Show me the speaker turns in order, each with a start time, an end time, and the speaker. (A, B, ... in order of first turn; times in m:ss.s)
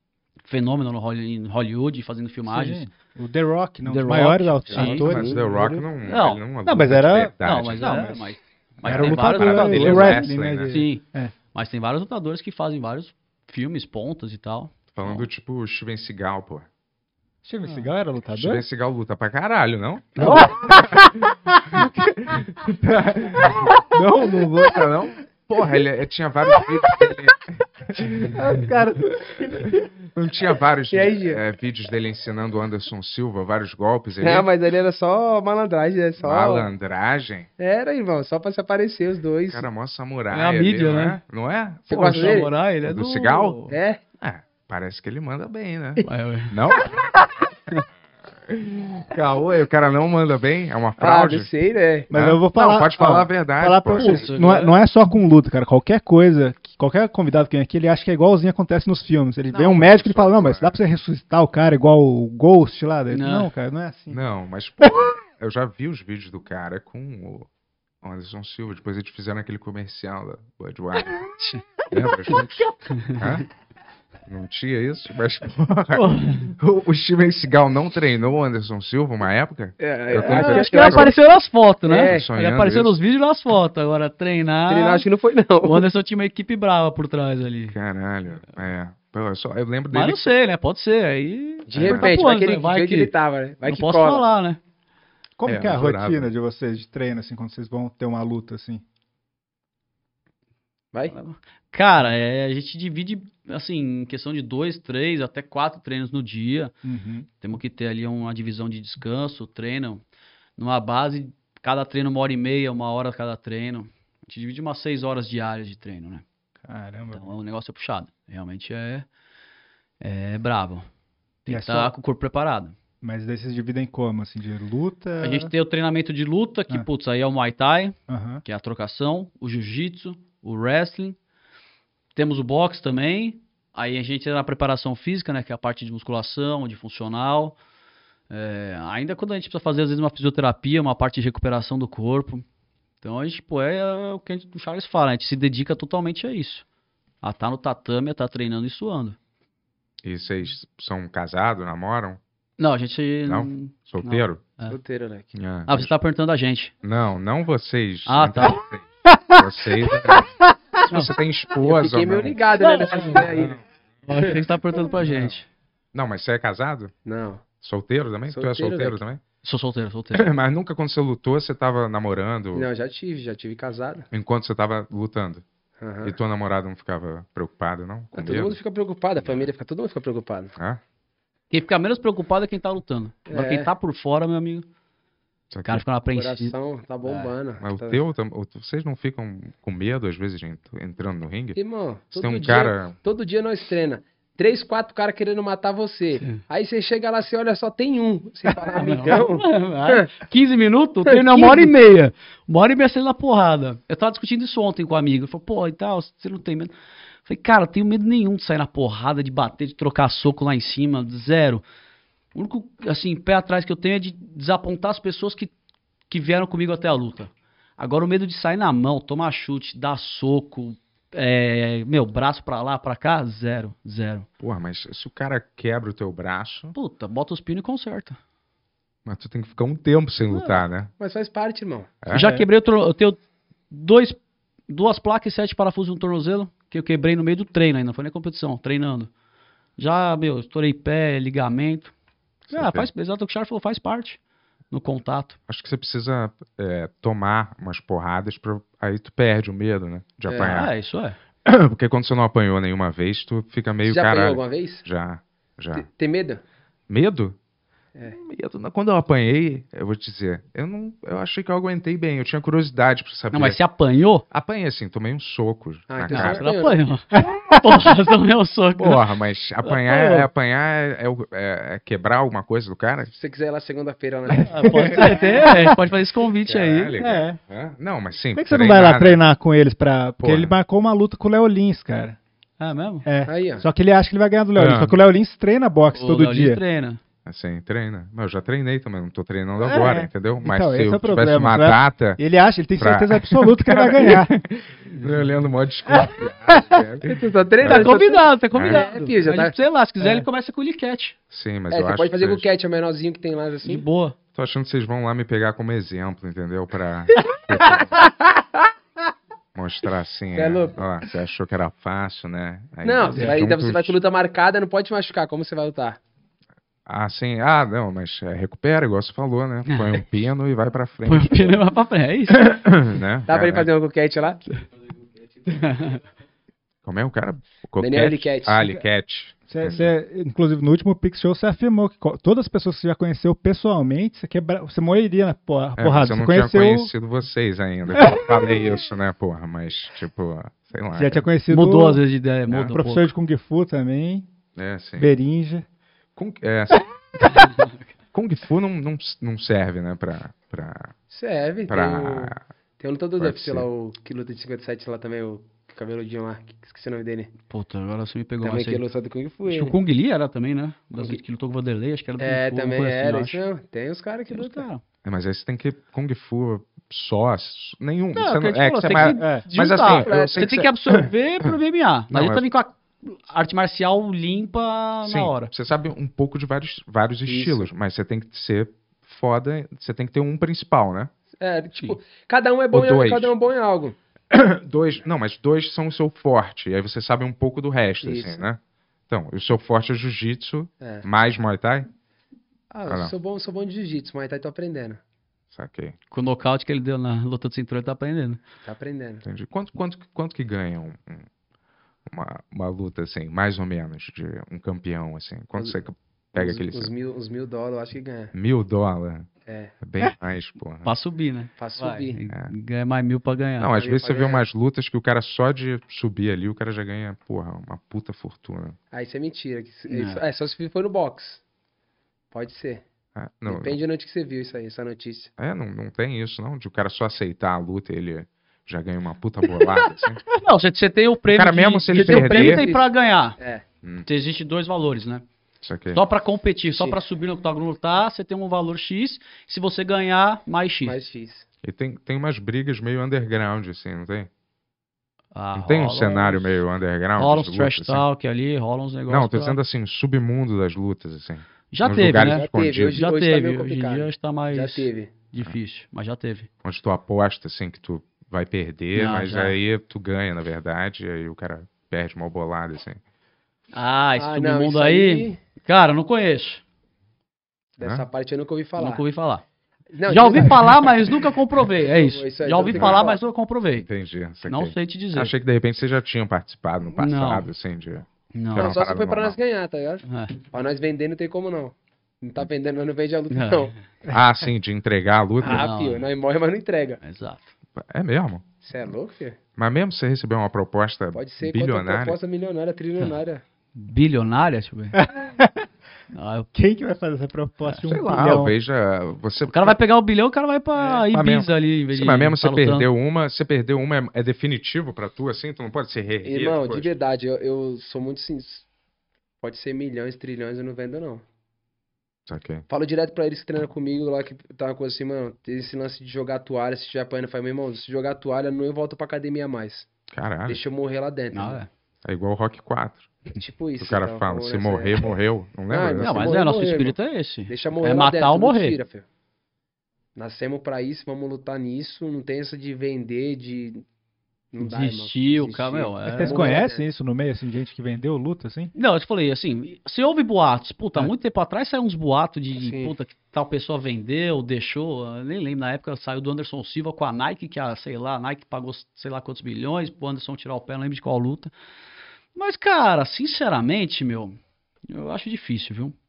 0:00.4-0:02.9 A
0:02.5-0:05.8 B
0:03.8-0:05.1 A
0:04.7-0:08.1 C
0:05.0-0:05.5 D
0:06.0-0:06.4 A
0:06.6-0:08.2 B
0:07.4-0:15.3 A
0:08.8-0:11.3 B
0:08.8-0:10.8 C
0:14.9-0:16.7 C
0:17.4-0:18.6 B
0:18.4-0:21.2 C
0:20.2-0:21.2 B
0:21.7-0:28.4 C
0:23.9-0:24.8 B
0:28.3-0:29.6 B
0:29.7-0:34.5 C
0:30.9-0:31.4 D
0:34.2-0:36.7 D
0:36.2-0:37.5 C
0:37.6-0:39.7 D
0:39.5-0:43.7 C
0:40.3-0:41.2 A
0:41.9-0:42.5 D
0:41.9-0:43.7 A
0:43.7-0:44.0 D
0:44.2-0:47.3 C
0:46.1-0:46.6 A
0:48.5-0:51.5 C
0:51.0-0:52.1 D
0:52.1-0:54.3 C
0:52.1-1:04.2 B
0:54.0-0:54.8 A
0:59.5-1:00.8 C
1:03.1-1:03.5 A
1:04.1-1:07.5 C
1:08.0-1:11.3 C
1:11.4-1:11.6 A
1:11.9-1:13.5 C
1:12.3-1:13.4 A
1:14.3-1:21.1 C
1:15.9-1:16.5 A
1:19.8-1:21.1 D
1:20.2-1:25.0 A
1:21.9-1:22.3 D
1:22.0-1:22.9 C
1:24.7-1:25.9 D
1:25.6-1:27.8 A
1:27.7-1:30.3 C
1:29.9-1:33.1 A
1:31.7-1:32.2 C
1:31.7-1:34.2 D
1:33.6-1:34.6 A
1:35.4-1:38.8 B
1:35.5-1:36.3 C
1:41.1-1:46.8 A
1:46.8-1:47.3 B
1:47.4-1:50.0 A
1:50.6-1:56.2 A
1:56.6-1:57.3 B
1:57.1-1:59.1 A
2:00.0-2:00.9 A
2:01.4-2:02.8 A
2:01.5-2:01.9 B
2:03.0-2:05.5 B
2:05.2-2:11.2 A
2:08.1-2:08.4 B
2:12.1-2:17.6 A
2:18.3-2:22.4 A
2:23.0-2:26.6 A
2:27.2-2:29.2 A
2:30.0-2:32.2 C
2:32.6-2:34.8 A
2:33.3-2:34.4 C
2:34.7-2:35.3 D
2:35.3-2:35.9 C
2:35.7-2:36.7 A
2:36.8-2:40.4 C
2:38.1-2:38.6 A
2:40.9-2:42.4 C
2:40.9-2:41.1 A
2:41.6-2:44.4 D
2:42.6-2:43.5 A
2:43.3-2:43.6 C
2:44.1-2:45.5 A
2:45.9-2:46.9 C
2:47.0-2:47.4 D
2:47.6-2:49.2 C
2:48.3-2:49.0 D
2:49.4-2:50.3 A
2:50.1-2:52.7 C
2:52.5-2:54.1 D
2:54.1-2:55.4 C
2:55.8-2:56.2 D
2:56.0-2:58.6 C
2:58.1-3:00.5 D
3:00.6-3:00.8 C
3:01.5-3:04.6 A
3:03.3-3:03.7 D
3:05.5-3:05.8 C
3:05.6-3:07.3 A
3:06.1-3:08.0 D
3:07.6-3:11.6 C
3:11.6-3:20.1 D
3:12.1-3:13.0 C
3:18.6-3:26.7 A
3:21.1-3:21.7 D
3:27.3-3:31.6 A
3:32.4-3:35.5 A
3:36.1-3:44.3 A
3:44.4-3:46.8 C
3:46.8-3:48.2 A
3:49.1-3:50.9 C
3:50.3-3:50.6 A
3:51.0-3:52.0 D
3:52.0-3:52.3 C
3:52.1-3:53.2 A
3:52.1-3:52.5 B
3:53.7-3:59.1 A
3:59.8-4:01.9 A
4:02.5-4:02.9 C
4:02.5-4:04.2 A
4:04.7-4:05.4 A
4:05.5-4:10.7 C
4:10.3-4:10.6 D
4:10.4-4:11.2 A
4:11.4-4:15.9 C
4:13.8-4:14.9 D
4:15.7-4:16.4 D
4:16.9-4:17.4 C
4:18.1-4:23.6 C
4:23.3-4:24.2 A
4:24.3-4:26.5 C
4:25.9-4:26.9 D
4:26.1-4:29.0 A
4:28.8-4:33.1 C
4:29.6-4:30.3 A
4:33.1-4:35.5 D
4:34.4-4:36.9 A
4:34.7-4:35.1 C
4:35.0-4:35.7 B
4:36.5-4:39.2 C
4:37.0-4:37.4 B
4:38.4-4:42.2 B
4:40.2-4:40.6 C
4:42.6-4:43.1 A
4:43.0-4:46.6 B
4:43.3-4:43.6 D
4:44.6-4:45.0 C
4:45.9-4:47.0 A
4:47.3-4:52.2 C
4:49.6-4:54.4 B
4:52.8-4:58.0 C
4:56.5-4:56.8 B
4:57.0-4:59.6 D
4:57.6-5:01.2 A
4:58.5-4:58.9 C
5:01.3-5:02.5 C
5:01.7-5:03.8 D
5:03.6-5:04.1 A
5:04.4-5:08.0 C
5:07.6-5:08.4 D
5:09.6-5:14.0 C
5:10.3-5:10.8 D
5:12.8-5:16.0 D
5:16.9-5:21.6 C
5:19.7-5:20.0 A
5:21.1-5:22.9 A
5:22.4-5:23.7 C
5:23.3-5:24.4 D
5:25.5-5:26.0 A
5:26.8-5:29.9 C
5:27.8-5:28.7 D
5:29.5-5:36.9 B
5:35.8-5:41.3 C
5:38.0-5:38.2 B
5:40.9-5:42.0 B
5:41.5-5:43.1 A
5:42.5-5:42.8 C
5:42.7-5:44.3 B
5:44.6-5:45.1 C
5:45.0-5:45.6 B
5:46.2-5:47.5 C
5:47.4-5:47.7 A
5:48.1-5:50.9 C
5:51.1-5:57.3 D
5:51.7-5:52.4 C
5:53.2-5:53.7 C
5:57.5-5:58.8 A
5:58.4-5:59.8 D
5:59.5-6:03.4 A
6:01.0-6:01.2 D
6:02.2-6:04.6 D
6:04.3-6:04.8 A
6:05.0-6:10.7 C
6:08.1-6:15.5 A
6:09.2-6:09.4 B
6:09.9-6:10.9 D
6:12.1-6:12.4 C
6:15.0-6:21.1 C
6:17.3-6:17.7 D
6:21.4-6:24.0 D
6:22.7-6:23.3 C
6:24.3-6:31.9 C
6:28.0-6:28.4 D
6:32.7-6:35.0 D
6:32.9-6:33.1 C
6:35.5-6:36.0 C
6:36.1-6:38.4 A
6:38.6-6:39.3 D
6:39.2-6:41.3 C
6:42.1-6:46.9 C
6:46.4-6:48.3 D
6:48.3-6:49.3 C
6:49.5-6:49.7 D
6:49.8-6:50.9 C
6:50.8-6:53.7 A
6:51.6-6:52.2 D
6:53.6-6:58.8 C
6:53.7-6:54.4 D
6:58.9-7:01.4 D
6:59.9-7:00.2 A
7:02.3-7:02.8 D
7:03.2-7:03.8 C
7:03.5-7:05.3 D
7:05.4-7:10.2 C
7:10.3-7:13.4 A
7:11.3-7:12.7 C
7:11.9-7:12.9 D
7:13.4-7:13.6 D
7:14.1-7:15.2 A
7:15.6-7:16.0 C
7:15.9-7:21.0 A
7:20.8-7:21.5 D
7:21.6-7:24.3 C
7:25.3-7:26.6 A
7:25.5-7:28.0 C
7:27.2-7:29.6 A
7:29.1-7:33.0 C
7:31.7-7:36.5 A
7:32.2-7:35.1 D
7:36.6-7:43.0 C
7:39.0-7:39.6 A
7:43.7-7:46.6 A
7:44.2-7:45.4 D
7:47.8-7:49.0 D
7:48.8-7:49.4 A
7:49.9-7:50.9 D
7:50.1-7:53.9 A
7:51.9-7:53.2 D
7:52.7-7:53.1 C
7:53.8-7:59.4 C
7:54.5-7:55.3 A
7:57.0-7:57.5 A
7:58.3-7:58.8 A
7:58.6-8:03.7 D
8:00.0-8:00.3 A
8:03.3-8:03.7 A
8:04.1-8:05.7 C
8:05.4-8:07.0 D
8:05.5-8:06.1 A
8:07.0-8:07.5 A
8:07.8-8:08.4 C
8:08.6-8:09.4 D
8:09.6-8:12.2 C
8:11.1-8:13.4 D
8:13.8-8:15.0 A
8:15.0-8:15.6 B
8:16.1-8:16.5 A
8:16.5-8:18.6 B
8:17.9-8:19.8 C
8:19.5-8:22.9 A
8:21.1-8:27.0 C
8:26.2-8:28.6 D
8:29.4-8:31.2 D
8:32.3-8:32.6 C
8:32.7-8:39.9 D
8:40.1-8:40.6 C
8:40.5-8:41.6 D
8:41.3-8:41.7 A
8:42.0-8:43.1 C
8:43.4-8:45.1 D
8:43.8-8:46.3 C
8:45.7-8:47.0 D
8:46.0-8:48.8 A
8:47.5-8:49.0 D
8:50.1-8:53.8 D
8:54.5-8:56.8 D
8:54.6-8:56.6 A
8:56.1-8:58.7 B
8:58.7-9:11.5 A
9:02.6-9:02.9 D
9:12.4-9:14.4 A
9:14.9-9:15.9 A